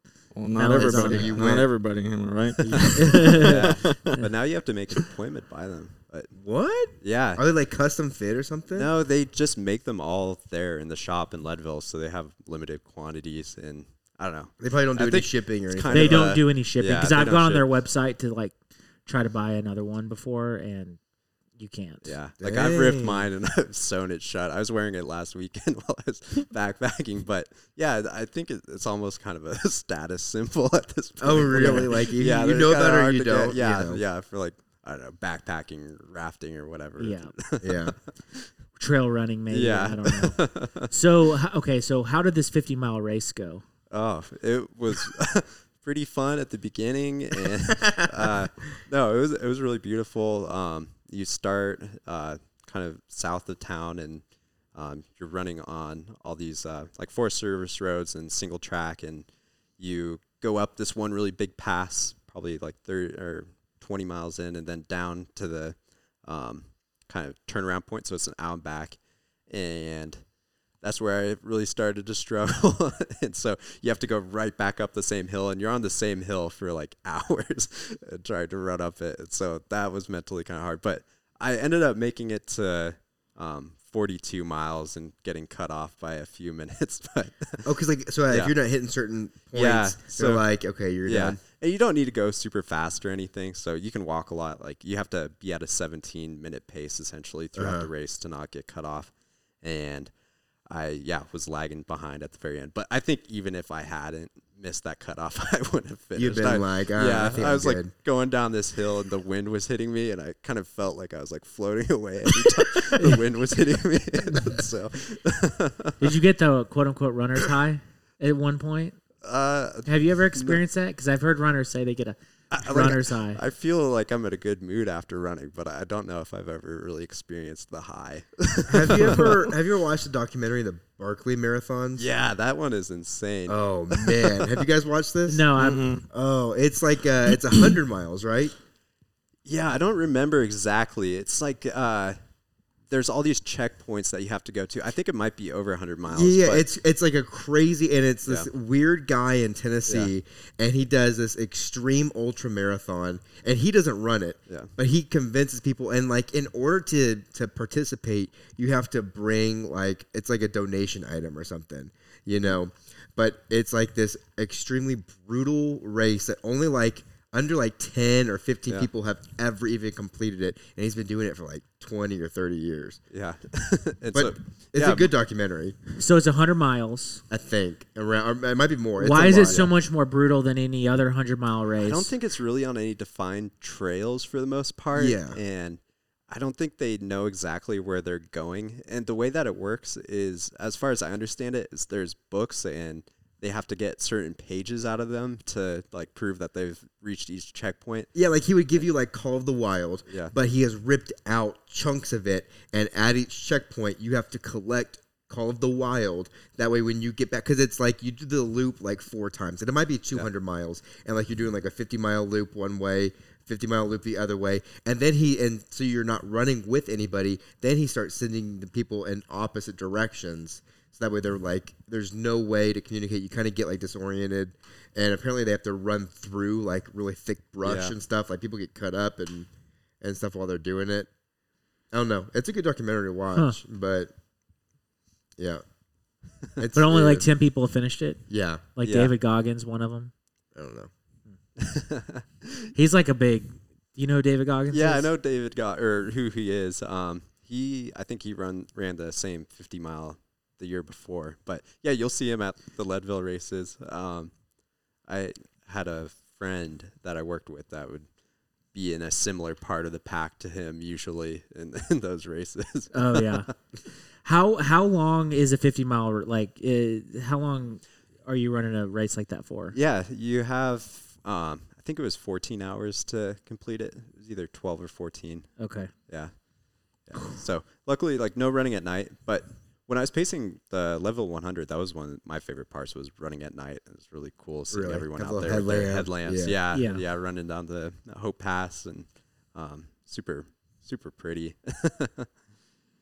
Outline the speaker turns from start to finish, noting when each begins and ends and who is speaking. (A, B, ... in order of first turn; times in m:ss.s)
0:00.3-0:04.2 A
0:00.5-0:01.3 B
0:00.7-0:01.7 C
0:02.6-0:03.3 C
0:03.0-0:03.7 B
0:03.3-0:06.3 D
0:06.4-0:08.9 C
0:07.0-0:07.4 D
0:08.7-0:17.6 D
0:14.6-0:16.4 C
0:15.9-0:21.0 B
0:21.6-0:22.1 B
0:22.0-0:38.5 D
0:22.4-0:23.3 C
0:31.2-0:34.0 C
0:31.5-0:32.0 B
0:37.0-0:37.3 B
0:37.6-0:38.0 C
0:38.8-0:43.6 B
0:39.5-0:40.9 D
0:43.9-0:54.2 D
0:54.7-0:59.2 D
0:59.8-1:09.0 D
1:09.5-1:10.2 D
1:10.8-1:27.7 D
1:27.6-1:31.4 C
1:29.5-1:30.4 D
1:31.0-1:40.1 D
1:37.5-1:37.9 C
1:40.7-1:56.0 D
1:46.2-1:47.9 C
1:56.0-1:59.0 B
1:59.2-2:00.6 D
1:59.8-2:03.4 B
2:02.5-2:09.5 D
2:08.7-2:12.0 C
2:12.0-2:14.6 D
2:13.5-2:15.5 C
2:15.3-2:16.0 B
2:15.6-2:16.0 A
2:16.1-2:18.5 C
2:19.4-2:22.2 D
2:22.9-2:26.7 D
2:26.1-2:53.0 C
2:53.1-2:55.1 D
2:54.1-2:55.8 C
2:56.0-2:57.2 B
2:57.3-2:59.7 C
2:59.0-3:02.1 B
2:59.4-2:59.7 D
3:01.8-3:18.1 D
3:04.9-3:05.4 C
3:18.1-3:49.5 C
3:20.1-3:20.3 D
3:47.6-3:47.9 D
3:50.0-3:51.1 C
3:51.9-3:54.1 C
3:55.4-3:55.6 C
3:56.6-3:57.3 C
3:56.7-3:58.2 B
3:58.3-3:58.6 C
3:58.8-4:00.1 B
3:58.8-3:59.1 D
4:00.5-4:00.9 C
4:01.6-4:02.7 D
4:02.7-4:05.1 B
4:04.7-4:14.3 D
4:15.1-4:18.0 D
4:18.7-4:23.5 D
4:22.9-4:23.5 B
4:24.2-4:29.8 B
4:29.7-4:35.5 D
4:35.6-4:35.9 B
4:37.1-4:52.3 D
4:44.7-4:46.5 C
4:46.7-4:47.0 B